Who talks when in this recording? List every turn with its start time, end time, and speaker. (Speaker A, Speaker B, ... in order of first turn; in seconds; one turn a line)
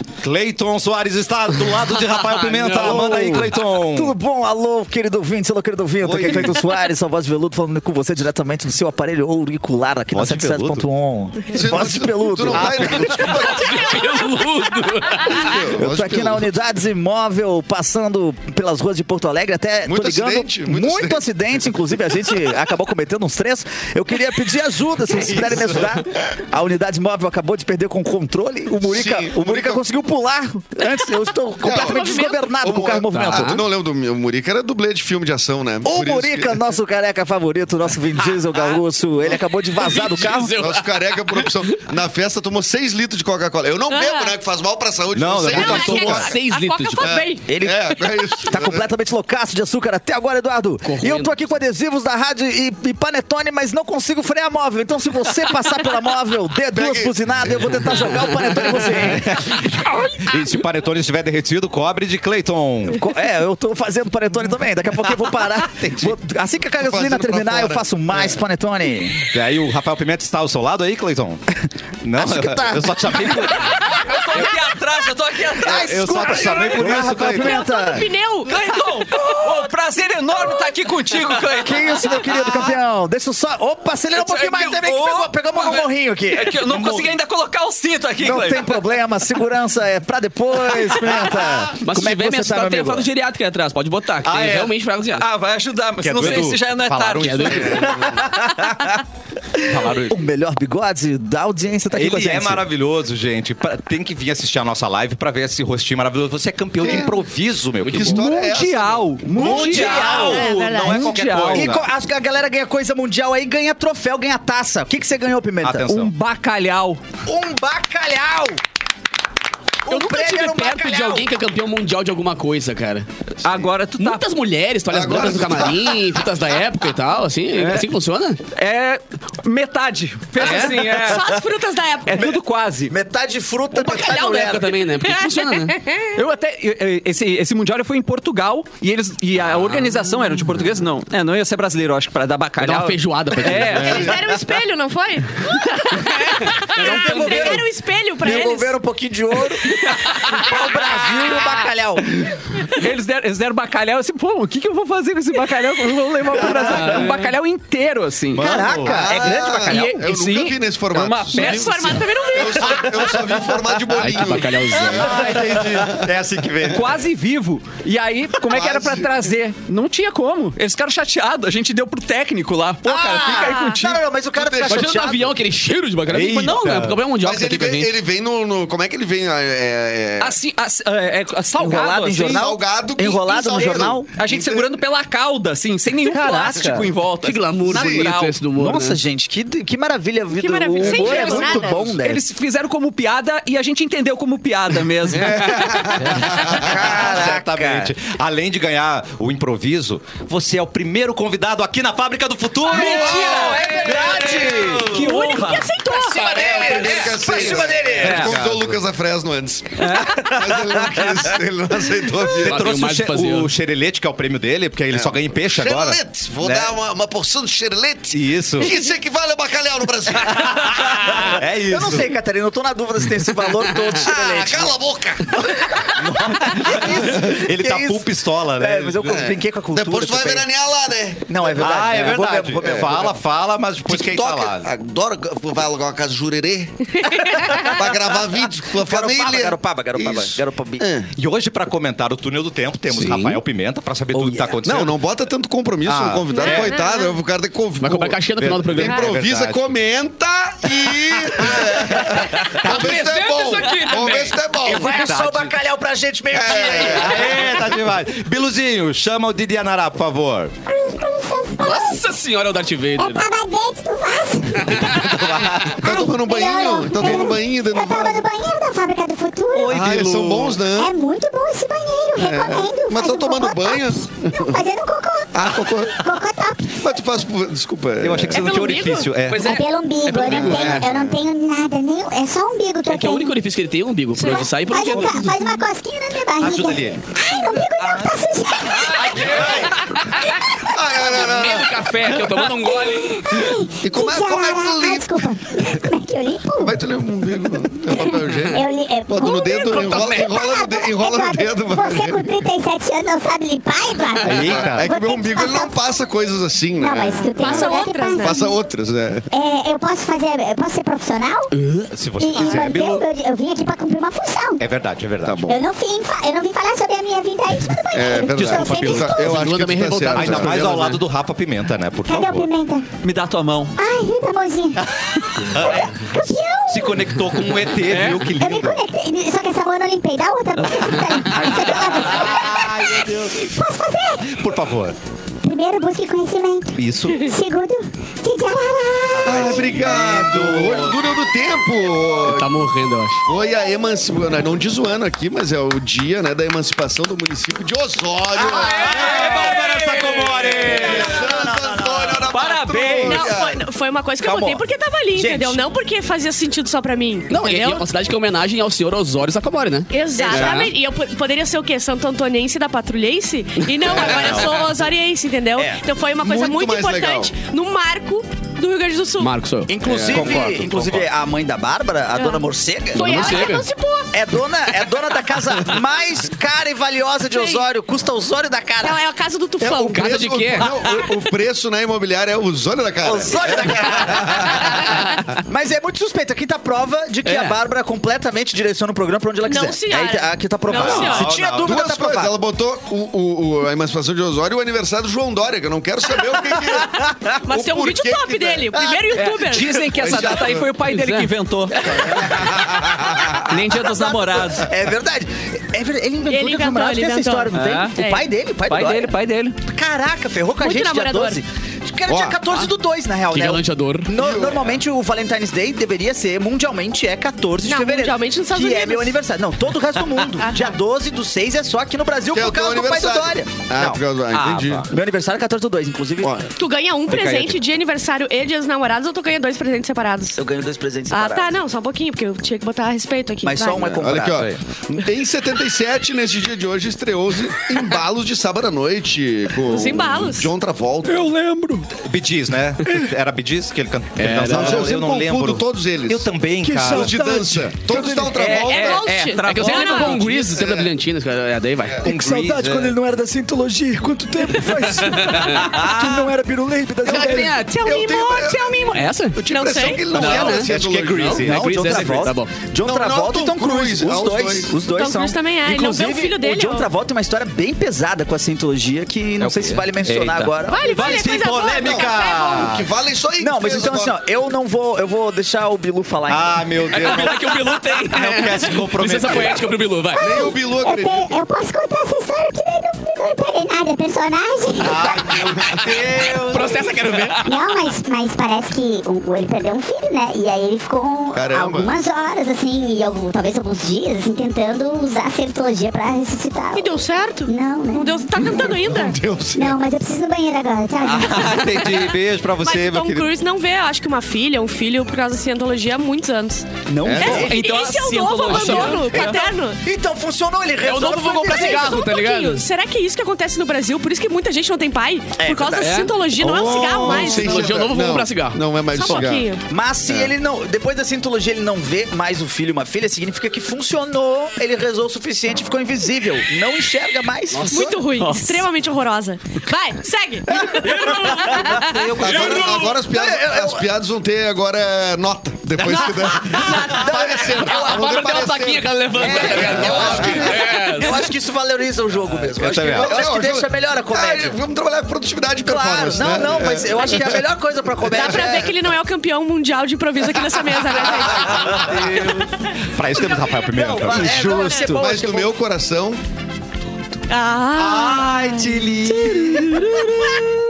Speaker A: 0.2-4.2
Speaker B: 2.4-3.1
Speaker C: 2.7-13.2
Speaker A: 6.0-6.5
Speaker A: 10.1-10.9
Speaker D: 11.5-14.1
Speaker A: 12.5-13.5
Speaker B: 13.2-15.5
Speaker E: 13.5-14.1
Speaker D: 15.1-16.5
Speaker C: 15.8-33.6
Speaker D: 19.9-21.2
Speaker D: 25.2-26.0
Speaker D: 28.9-29.8
Speaker E: 30.8-32.4
Speaker D: 31.6-36.6
Speaker B: 33.1-33.5
Speaker C: 35.8-40.6
Speaker B: 39.7-41.7
Speaker D: 40.6-46.3
Speaker E: 43.9-44.4
Speaker A: 45.1-46.3
Speaker B: 45.5-47.2
Speaker E: 45.5-47.5
Speaker D: 47.0-48.9
Speaker C: 47.5-59.9
Speaker B: 50.8-51.4
Speaker D: 56.7-57.1
Speaker A: 59.1-63.0
Speaker C: 62.9-69.3
Speaker D: 66.8-67.8
Speaker A: 69.2-71.4
Speaker A: 72.0-74.7
Speaker C: 72.2-73.8
Speaker F: 73.9-76.3
Speaker C: 75.6-78.1
Speaker A: 75.7-77.7
Speaker E: 77.3-78.6
Speaker F: 78.5-82.7
Speaker C: 81.5-86.8
Speaker F: 84.2-88.8
Speaker A: 86.7-87.1
Speaker C: 88.2-93.1
Speaker B: 91.8-95.3
Speaker A: 94.2-94.8
Speaker F: 95.1-98.1
Speaker A: 96.0-98.0
Speaker B: 96.2-96.5
Speaker B: 97.2-98.0
Speaker D: 97.5-98.2
Speaker F: 99.7-100.2
Speaker C: 100.0-102.7
Speaker A: 101.9-108.3
Speaker D: 106.8-107.1
Speaker B: 107.8-108.2
Speaker D: 107.9-109.2
Speaker F: 108.1-111.7
Speaker C: 109.2-110.5
Speaker A: 109.3-111.9
Speaker E: 109.7-111.2
Speaker C: 111.5-116.0
Speaker A: 115.6-116.1
Speaker F: 115.9-117.0
Speaker C: 117.2-118.6
Speaker C: 119.8-121.3
Speaker B: 119.9-123.1
Speaker F: 123.4-124.3
Speaker B: 124.0-128.4
Speaker D: 124.9-126.1
Speaker F: 127.5-127.9
Speaker F: 128.5-131.3
Speaker E: 130.4-132.3
Speaker F: 132.1-132.9
Speaker C: 132.9-134.8
Speaker B: 133.7-135.8
Speaker E: 135.0-136.1
Speaker F: 136.2-144.2
Speaker B: 139.4-139.8
Speaker B: 142.6-144.2
Speaker E: 143.8-148.8
Speaker F: 146.7-147.6
Speaker C: 146.8-147.7
Speaker B: 147.1-147.6
Speaker C: 148.2-152.2
Speaker F: 152.7-158.5
Speaker B: 156.5-157.2
Speaker A: 158.3-159.1
Speaker C: 158.3-159.6
Speaker D: 158.9-166.1
Speaker F: 159.1-162.1
Speaker E: 161.3-163.1
Speaker B: 163.9-165.3
Speaker F: 164.8-165.8
Speaker A: 164.9-167.0
Speaker F: 166.7-174.1
Speaker D: 168.5-169.1
Speaker C: 172.8-175.4
Speaker E: 173.3-173.8
Speaker D: 174.3-175.1
Speaker B: 174.7-178.0
Speaker A: 176.1-177.1
Speaker D: 177.1-180.4
Speaker F: 180.2-182.5
Speaker C: 181.6-184.1
Speaker D: 182.2-184.8
Speaker F: 183.6-188.4
Speaker B: 187.1-189.0
Speaker D: 187.7-188.1
Speaker C: 188.6-192.2
Speaker E: 190.3-191.9
Speaker F: 190.8-195.8
Speaker A: 195.2-205.2
Speaker D: 195.6-196.6
Speaker C: 196.1-197.9
Speaker C: 202.7-205.1
Speaker F: 202.7-208.3
Speaker E: 204.9-206.6
Speaker C: 205.8-208.4
Speaker B: 206.1-207.2
Speaker D: 206.4-212.8
Speaker A: 208.0-208.8
Speaker F: 209.8-210.3
Speaker C: 210.1-211.0
Speaker A: 212.3-216.8
Speaker B: 212.4-213.5
Speaker D: 214.9-221.3
Speaker A: 218.1-218.8
Speaker A: 220.2-222.1
Speaker C: 221.0-224.8
Speaker D: 224.0-225.4
Speaker C: 225.3-230.5
Speaker A: 226.0-229.1
Speaker D: 226.9-227.4
Speaker D: 229.0-233.0
Speaker C: 231.3-233.1
Speaker A: 231.6-234.7
Speaker D: 233.9-241.1
Speaker E: 237.1-237.7
Speaker C: 238.7-240.9
Speaker A: 241.2-244.9
Speaker B: 242.9-243.4
Speaker C: 244.1-244.6
Speaker D: 244.7-255.1
Speaker A: 245.8-246.7
Speaker E: 246.3-247.2
Speaker B: 247.8-249.1
Speaker A: 248.4-249.6
Speaker A: 251.4-252.5
Speaker F: 252.5-254.4
Speaker B: 252.9-254.2
Speaker C: 254.6-257.6
Speaker A: 254.9-255.5
Speaker D: 256.3-257.5
Speaker A: 256.5-260.5
Speaker G: 260.7-262.1
Speaker B: 261.6-263.2
Speaker G: 263.0-265.2
Speaker B: 264.6-265.2
Speaker A: 264.9-265.8
Speaker D: 265.6-268.2
Speaker G: 265.8-269.8
Speaker A: 269.6-270.6
Speaker D: 269.7-270.9
Speaker G: 270.7-275.3
Speaker D: 272.1-274.6
Speaker D: 275.3-276.1
Speaker G: 276.0-276.8
Speaker D: 276.7-278.4
Speaker A: 278.0-279.6
Speaker E: 278.3-279.1
Speaker B: 279.3-280.9
Speaker G: 279.3-283.4
Speaker D: 280.2-281.2
Speaker B: 282.9-285.4
Speaker E: 284.1-284.5
Speaker G: 284.3-289.5
Speaker A: 286.4-288.2
Speaker A: 288.7-289.8
Speaker B: 288.9-289.7
Speaker D: 290.6-291.9
Speaker B: 291.0-293.5
Speaker G: 292.8-296.8
Speaker D: 293.8-295.3
Speaker D: 296.6-302.4
Speaker G: 297.9-305.8
Speaker B: 299.7-300.3
Speaker A: 304.2-304.9
Speaker D: 304.3-309.3
Speaker G: 306.8-308.5
Speaker E: 307.1-308.5
Speaker G: 309.3-311.5
Speaker B: 311.5-311.9
Speaker A: 311.9-313.1
Speaker G: 312.2-314.6
Speaker A: 314.6-315.5
Speaker D: 315.2-315.6
Speaker G: 315.5-319.5
Speaker D: 317.9-320.9
Speaker A: 318.4-319.4
Speaker B: 319.1-321.0
Speaker A: 320.1-322.5
Speaker G: 322.1-322.9
Speaker F: 323.0-323.8
Speaker G: 323.8-327.1
Speaker A: 324.9-325.9
Speaker A: 326.7-328.8
Speaker F: 327.7-328.3
Speaker G: 328.4-334.5
Speaker A: 331.3-333.4
Speaker A: 334.3-334.9
Speaker G: 335.4-339.7
Speaker A: 336.8-337.3
Speaker A: 339.1-341.0
Speaker D: 339.2-342.7
Speaker B: 342.2-343.2
Speaker D: 343.3-349.5
Speaker A: 348.4-353.3
Speaker B: 349.0-350.5
Speaker D: 350.5-353.6
Speaker F: 352.3-353.1
Speaker E: 353.0-357.9
Speaker C: 354.2-354.6
Speaker C: 355.1-355.6
Speaker B: 357.3-360.7
Speaker E: 359.9-369.3
Speaker C: 360.2-360.6
Speaker D: 363.9-364.6
Speaker B: 364.0-364.3
Speaker C: 365.6-365.8
Speaker D: 366.2-367.3
Speaker B: 369.2-370.5
Speaker C: 369.7-373.5
Speaker A: 370.1-371.1
Speaker D: 370.1-370.5
Speaker E: 372.1-374.1
Speaker B: 372.9-373.7
Speaker C: 374.1-379.0
Speaker E: 377.3-377.6
Speaker E: 378.8-380.0
Speaker D: 379.6-384.8
Speaker B: 379.9-380.8
Speaker C: 383.0-392.4
Speaker E: 389.4-391.3
Speaker A: 390.7-391.9
Speaker D: 391.6-400.9
Speaker E: 397.4-399.9
Speaker F: 399.2-402.5
Speaker D: 401.9-403.3
Speaker C: 402.1-423.7
Speaker F: 403.3-404.7
Speaker E: 406.3-408.3
Speaker F: 407.5-408.0
Speaker F: 408.7-409.6
Speaker E: 410.6-411.4
Speaker D: 412.1-412.4
Speaker B: 413.3-414.1
Speaker D: 414.1-414.8
Speaker E: 417.6-419.1
Speaker D: 422.3-424.9
Speaker A: 423.8-424.9
Speaker C: 424.9-426.4
Speaker D: 426.2-426.5
Speaker E: 426.6-430.4
Speaker C: 430.4-431.5
Speaker E: 431.1-433.9
Speaker C: 433.4-434.5
Speaker D: 433.8-441.3
Speaker E: 439.7-440.5
Speaker F: 441.1-441.9
Speaker A: 441.9-447.2
Speaker B: 444.2-444.9
Speaker D: 444.4-446.3
Speaker C: 446.6-448.5
Speaker D: 446.8-449.1
Speaker F: 448.3-450.4
Speaker E: 448.5-450.2
Speaker B: 449.4-452.1
Speaker D: 450.3-450.9
Speaker C: 452.0-457.6
Speaker A: 452.1-452.9
Speaker B: 455.0-455.6
Speaker A: 455.6-456.3
Speaker B: 457.0-459.3
Speaker D: 457.8-461.6
Speaker E: 458.1-458.8
Speaker F: 458.9-459.4
Speaker E: 459.5-460.1
Speaker B: 460.1-462.5
Speaker A: 460.2-460.5
Speaker A: 461.4-461.7
Speaker C: 461.4-470.9
Speaker D: 462.8-464.7
Speaker E: 464.8-466.9
Speaker F: 469.4-470.6
Speaker E: 470.7-472.7
Speaker A: 470.9-472.9
Speaker D: 471.8-474.2
Speaker C: 473.4-476.8
Speaker A: 476.3-479.6
Speaker B: 476.9-480.5
Speaker G: 480.1-485.5
Speaker D: 480.2-481.3
Speaker A: 484.8-486.9
Speaker B: 486.4-487.5
Speaker G: 487.4-496.9
Speaker D: 491.3-491.9
Speaker E: 496.7-499.2
Speaker G: 497.4-498.3
Speaker D: 498.5-499.8
Speaker G: 499.6-501.7
Speaker A: 501.0-503.3
Speaker E: 501.3-509.8
Speaker F: 506.9-509.4
Speaker C: 507.0-507.6
Speaker D: 507.0-507.5
Speaker B: 507.4-509.4
Speaker C: 508.6-512.0
Speaker B: 510.8-512.6
Speaker E: 511.4-517.7
Speaker C: 515.4-517.4
Speaker B: 515.8-516.1
Speaker D: 516.6-519.5
Speaker B: 517.0-518.6
Speaker E: 518.9-519.6
Speaker C: 519.7-527.9
Speaker B: 527.5-528.3
Speaker E: 527.7-532.1
Speaker F: 528.1-528.6
Speaker B: 530.8-532.8
Speaker C: 531.1-533.9
Speaker D: 532.0-540.7
Speaker C: 535.8-537.7
Speaker E: 536.0-537.1
Speaker B: 537.5-541.3
Speaker C: 539.2-544.6
Speaker A: 542.6-543.2
Speaker D: 542.9-547.4
Speaker C: 545.6-548.8
Speaker D: 548.1-548.5
Speaker E: 548.1-552.7
Speaker A: 551.7-554.4
Speaker C: 553.7-555.5
Speaker F: 554.2-555.0
Speaker D: 554.9-556.2
Speaker E: 557.3-560.1
Speaker A: 557.8-560.5